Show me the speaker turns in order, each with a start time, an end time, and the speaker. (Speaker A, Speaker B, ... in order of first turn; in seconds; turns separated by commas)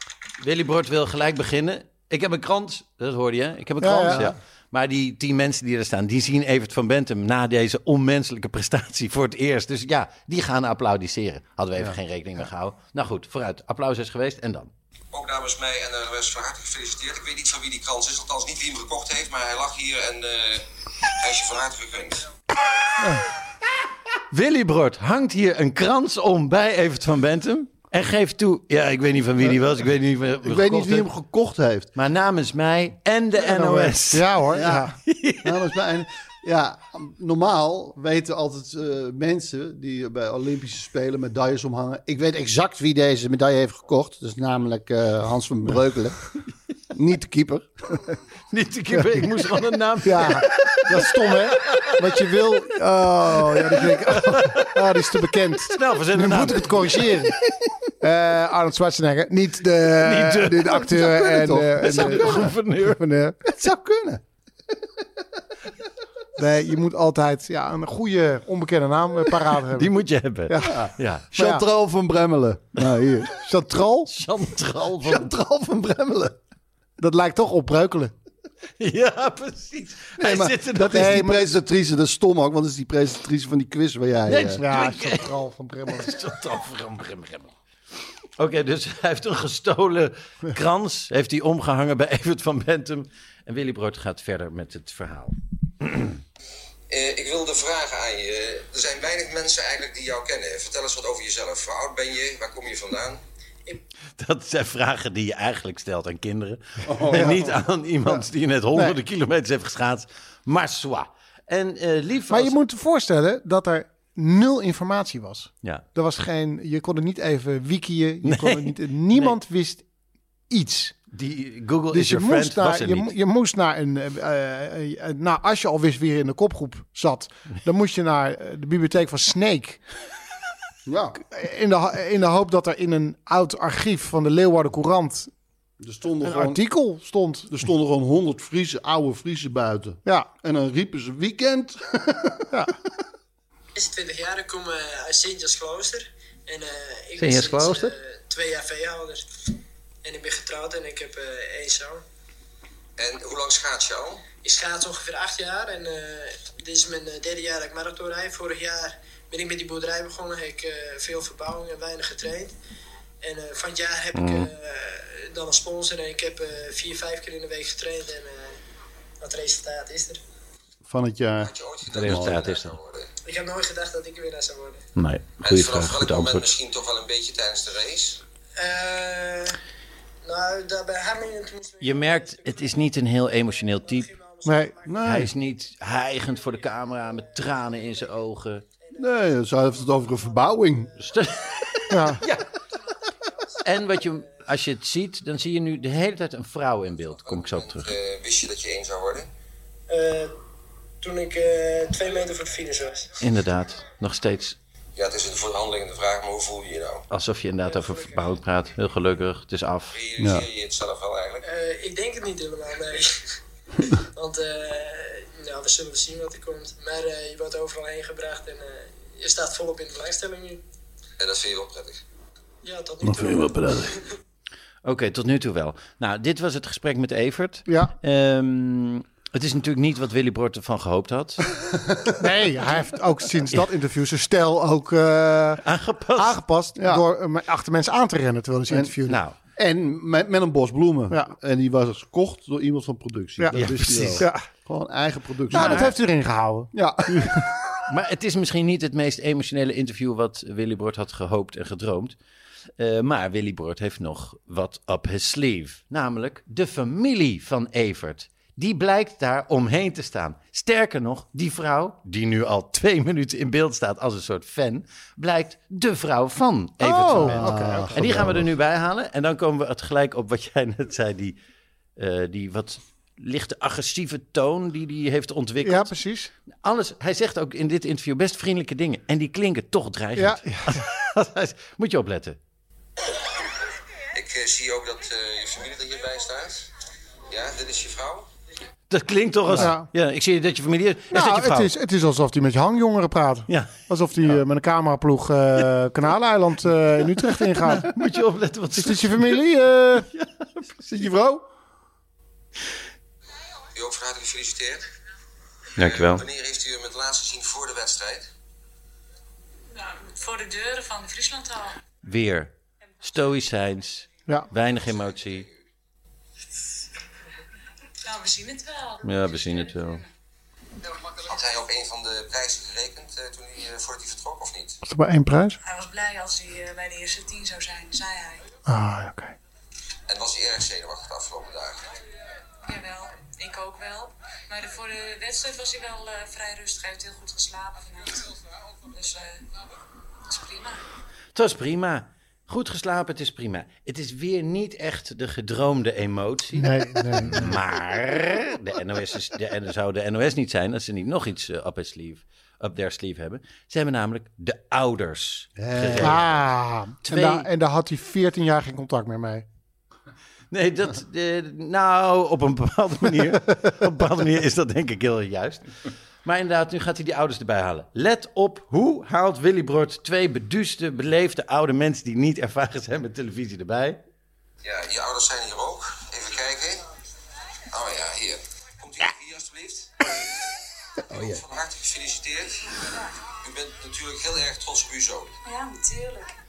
Speaker A: 0.4-14.7, Speaker B: 3.8-4.3, Speaker C: 4.1-4.4, Speaker D: 15.1-22.2, Speaker B: 23.0-23.2, Speaker A: 24.3-31.1, Speaker C: 30.4-31.9, Speaker A: 31.9-34.4, Speaker B: 33.4-35.0, Speaker C: 34.5-46.3, Speaker A: 35.0-35.8, Speaker C: 46.9-48.1, Speaker A: 48.5-52.0, Speaker B: 50.0-57.4, Speaker A: 53.7-57.3, Speaker B: 58.0-63.4, Speaker A: 60.0-61.3, Speaker C: 60.9-62.6, Speaker A: 61.8-63.0, Speaker C: 63.5-64.2, Speaker B: 66.4-69.9, Speaker A: 69.7-71.3, Speaker B: 70.5-71.6, Speaker C: 70.6-73.3, Speaker B: 73.4-74.1, Speaker A: 74.1-75.3, Speaker C: 75.0-76.4, Speaker B: 77.0-78.1, Speaker A: 78.8-81.2, Speaker C: 80.2-84.6, Speaker B: 80.9-81.5, Speaker A: 84.3-87.5, Speaker B: 84.6-86.2, Speaker A: 88.4-96.2, Speaker D: 96.9-103.2, Speaker A: 104.2-112.6, Speaker B: 107.1-107.5, Speaker B: 112.3-119.8, Speaker A: 118.2-119.4, Speaker B: 120.5-121.0, Speaker A: 121.1-123.1, Speaker B: 121.9-129.8, Speaker C: 130.9-131.2, Speaker B: 131.2-135.3, Speaker C: 135.8-136.6, Speaker B: 136.2-137.5, Speaker C: 137.5-142.5, Speaker B: 140.1-140.3, Speaker E: 143.8-149.3, Speaker A: 147.2-147.9, Speaker E: 150.0-152.0, Speaker D: 153.0-154.3, Speaker E: 154.4-162.6, Speaker E: 163.2-168.6, Speaker A: 164.1-164.5, Speaker E: 169.2-170.2, Speaker C: 170.8-172.5, Speaker D: 171.4-173.1, Speaker A: 171.9-172.8, Speaker E: 173.2-174.8, Speaker A: 175.0-176.5, Speaker D: 175.4-178.2, Speaker E: 178.6-179.6, Speaker E: 180.2-183.0, Speaker A: 181.8-184.1, Speaker E: 183.5-185.1, Speaker B: 184.4-184.8, Speaker C: 184.9-185.3, Speaker A: 185.0-188.6, Speaker E: 186.9-188.1, Speaker E: 188.8-189.1, Speaker C: 188.9-191.0, Speaker E: 190.0-191.8, Speaker A: 191.0-192.5, Speaker B: 191.9-192.2, Speaker E: 193.2-194.3, Speaker A: 193.6-197.9, Speaker D: 197.2-199.3, Speaker E: 199.9-200.3, Speaker E: 201.0-203.2, Speaker A: 203.2-204.6, Speaker D: 205.0-207.0, Speaker A: 207.1-210.0, Speaker E: 207.7-208.3, Speaker D: 209.9-211.4, Speaker C: 210.2-210.5, Speaker E: 211.4-213.3, Speaker E: 213.9-220.6, Speaker D: 221.2-222.0, Speaker E: 222.6-224.0, Speaker C: 223.0-224.0, Speaker A: 224.8-231.5, Speaker B: 227.7-227.9, Speaker C: 231.7-232.0, Speaker B: 232.2-235.6, Speaker A: 235.6-236.4, Speaker B: 236.2-239.2, Speaker C: 236.8-237.0, Speaker C: 238.7-238.9, Speaker A: 239.1-239.4, Speaker C: 239.6-245.9, Speaker A: 243.5-244.3, Speaker B: 244.2-244.4, Speaker B: 245.5-247.5, Speaker A: 245.5-245.9, Speaker C: 246.7-247.4, Speaker A: 247.9-252.2, Speaker A: 252.8-271.4, Speaker B: 266.8-268.0, Speaker C: 267.1-268.5, Speaker A: 272.0-275.9, Speaker B: 275.6-276.3, Speaker A: 276.6-282.4, Speaker B: 280.2-280.8, Speaker D: 284.1-286.7, Speaker D: 287.3-288.3, Speaker A: 288.9-291.7, Speaker B: 289.5-289.9, Speaker B: 291.1-297.9, Speaker A: 297.2-299.4, Speaker B: 298.8-300.1, Speaker A: 300.1-301.1, Speaker B: 300.9-301.4, Speaker D: 303.8-304.9, Speaker A: 305.8-306.2, Speaker D: 305.8-308.3, Speaker F: 309.8-311.8, Speaker A: 312.0-315.5, Speaker F: 318.0-320.0, Speaker A: 319.0-320.0, Speaker D: 321.1-324.8, Speaker B: 324.9-325.6, Speaker F: 325.6-328.4, Speaker B: 328.7-329.4, Speaker D: 330.1-331.9, Speaker F: 332.7-338.3, Speaker F: 338.9-339.4, Speaker F: 340.3-340.8, Speaker A: 341.4-356.4, Speaker B: 346.6-347.5, Speaker C: 355.6-356.2, Speaker B: 356.0-359.4, Speaker A: 357.0-357.5, Speaker A: 360.5-374.0, Speaker D: 374.6-376.8, Speaker D: 377.7-380.5, Speaker D: 381.1-382.8, Speaker C: 381.1-381.4, Speaker D: 383.3-385.3, Speaker F: 385.4-386.3